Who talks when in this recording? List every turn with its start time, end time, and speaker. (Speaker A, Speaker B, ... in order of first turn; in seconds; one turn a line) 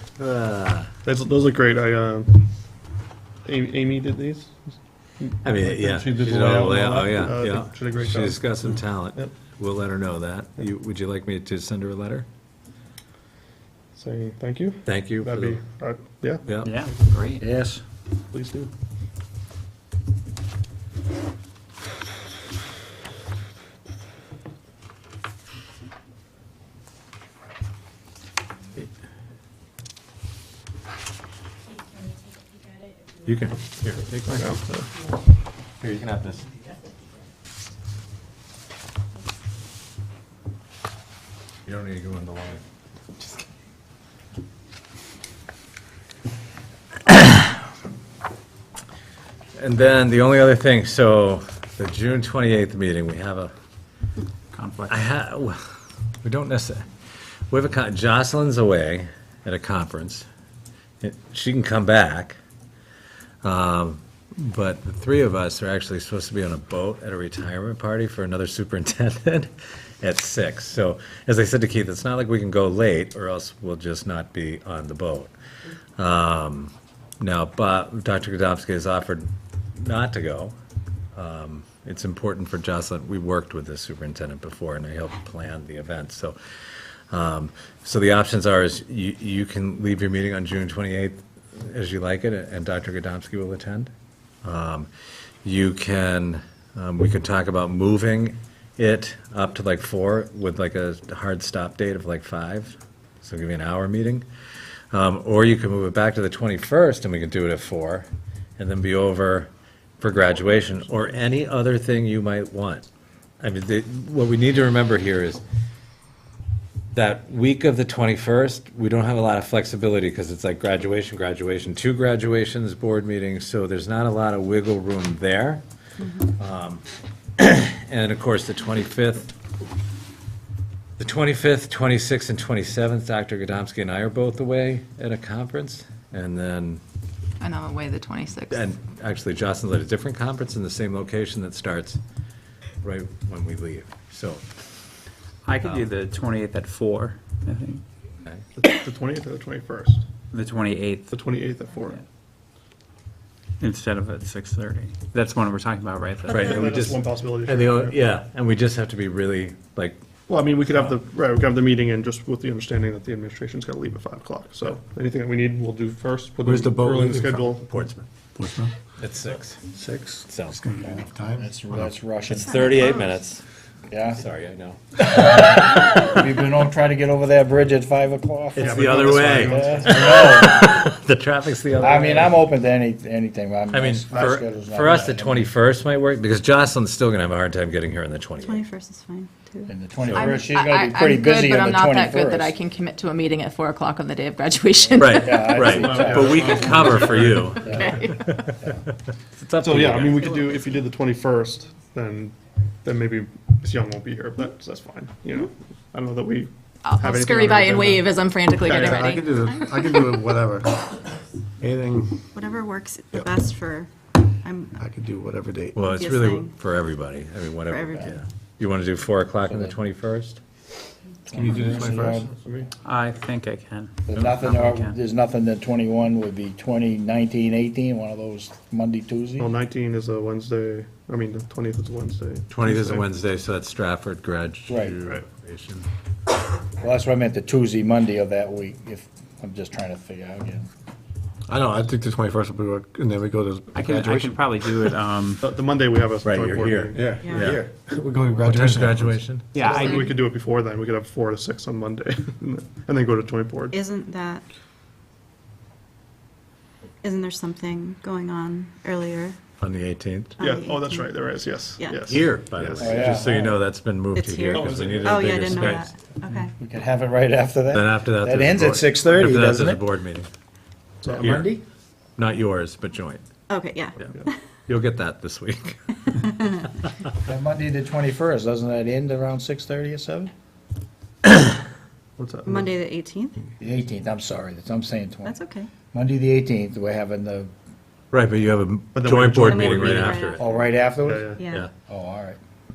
Speaker A: 0.2-0.9
Speaker B: 1.1-2.5
Speaker B: 3.5-9.3
Speaker A: 5.4-12.3
Speaker B: 14.0-16.6
Speaker A: 14.8-15.6
Speaker A: 16.5-16.9
Speaker C: 16.6-17.4
Speaker D: 17.4-17.8
Speaker B: 18.3-18.7
Speaker A: 33.2-34.6
Speaker B: 34.3-34.9
Speaker A: 35.8-36.5
Speaker A: 41.6-42.6
Speaker A: 49.5-53.5
Speaker C: 54.5-54.9
Speaker A: 54.9-55.6
Speaker A: 56.2-56.9
Speaker A: 57.5-60.3
Speaker A: 61.0-62.4
Speaker A: 63.4-69.5
Speaker A: 70.0-75.3
Speaker A: 76.0-80.5
Speaker A: 81.1-86.4
Speaker A: 87.1-93.9
Speaker A: 94.4-94.9
Speaker A: 95.4-104.3
Speaker A: 104.9-108.1
Speaker A: 108.6-112.8
Speaker A: 113.4-115.4
Speaker A: 116.9-125.6
Speaker E: 126.0-126.3
Speaker A: 126.4-126.8
Speaker A: 127.4-129.3
Speaker A: 131.0-136.8
Speaker F: 137.4-138.7
Speaker A: 138.5-142.0
Speaker A: 142.8-144.5
Speaker C: 145.4-147.8
Speaker A: 145.6-145.9
Speaker B: 148.6-150.0
Speaker C: 150.3-151.2
Speaker B: 151.1-152.0
Speaker C: 153.6-156.6
Speaker B: 156.3-158.0
Speaker A: 156.3-160.0
Speaker B: 160.3-167.7
Speaker G: 166.4-167.6
Speaker A: 167.7-168.1
Speaker G: 168.4-168.7
Speaker A: 169.0-169.6
Speaker G: 169.7-171.5
Speaker A: 170.3-170.6
Speaker D: 171.0-172.6
Speaker A: 172.3-173.4
Speaker E: 172.3-173.2
Speaker D: 173.9-174.2
Speaker A: 174.1-175.6
Speaker D: 175.0-180.9
Speaker A: 178.6-182.4
Speaker B: 178.6-180.3
Speaker D: 181.8-185.5
Speaker A: 183.7-188.7
Speaker B: 184.1-184.4
Speaker E: 188.4-189.7
Speaker D: 189.7-192.5
Speaker F: 190.1-197.0
Speaker A: 195.0-198.8
Speaker D: 195.1-196.5
Speaker B: 195.8-197.8
Speaker D: 197.6-198.0
Speaker F: 197.7-198.3
Speaker A: 199.4-200.3
Speaker B: 199.6-209.5
Speaker F: 206.8-209.3
Speaker G: 209.2-210.8
Speaker E: 209.5-210.2
Speaker G: 211.6-212.2
Speaker E: 212.3-214.7
Speaker G: 214.8-215.8
Speaker A: 215.8-220.4
Speaker E: 215.8-216.5
Speaker E: 217.7-218.2
Speaker D: 219.5-219.8
Speaker D: 221.3-222.3
Speaker G: 221.3-222.2
Speaker B: 221.3-222.7
Speaker C: 222.8-225.0
Speaker D: 224.1-229.5
Speaker B: 229.4-233.1
Speaker A: 232.5-235.9
Speaker D: 234.7-235.0
Speaker D: 236.8-240.7
Speaker G: 241.5-244.3
Speaker C: 243.7-245.4
Speaker B: 245.4-247.5
Speaker A: 246.2-247.6
Speaker G: 246.9-249.0
Speaker E: 247.2-247.6
Speaker A: 248.4-249.6
Speaker B: 249.5-253.8
Speaker C: 249.6-250.1
Speaker E: 253.7-254.4
Speaker E: 257.0-259.4
Speaker A: 259.6-260.4
Speaker E: 260.4-261.1
Speaker B: 260.4-263.1
Speaker E: 261.8-262.1
Speaker A: 262.1-265.9
Speaker D: 262.8-263.6
Speaker E: 264.1-266.5
Speaker B: 264.5-265.4
Speaker D: 266.6-269.8
Speaker A: 267.7-270.3
Speaker B: 271.0-271.5
Speaker D: 271.1-271.6
Speaker A: 271.2-271.5
Speaker A: 272.2-273.2
Speaker E: 273.5-274.4
Speaker A: 274.7-276.5
Speaker D: 277.2-280.3
Speaker B: 282.2-282.7
Speaker E: 282.4-283.4
Speaker D: 283.6-285.4
Speaker E: 285.2-285.7
Speaker D: 285.9-287.5
Speaker A: 288.1-290.4
Speaker B: 288.9-290.3
Speaker E: 289.4-290.7
Speaker D: 290.4-291.4
Speaker B: 291.0-291.4
Speaker E: 291.4-291.7
Speaker D: 291.9-292.4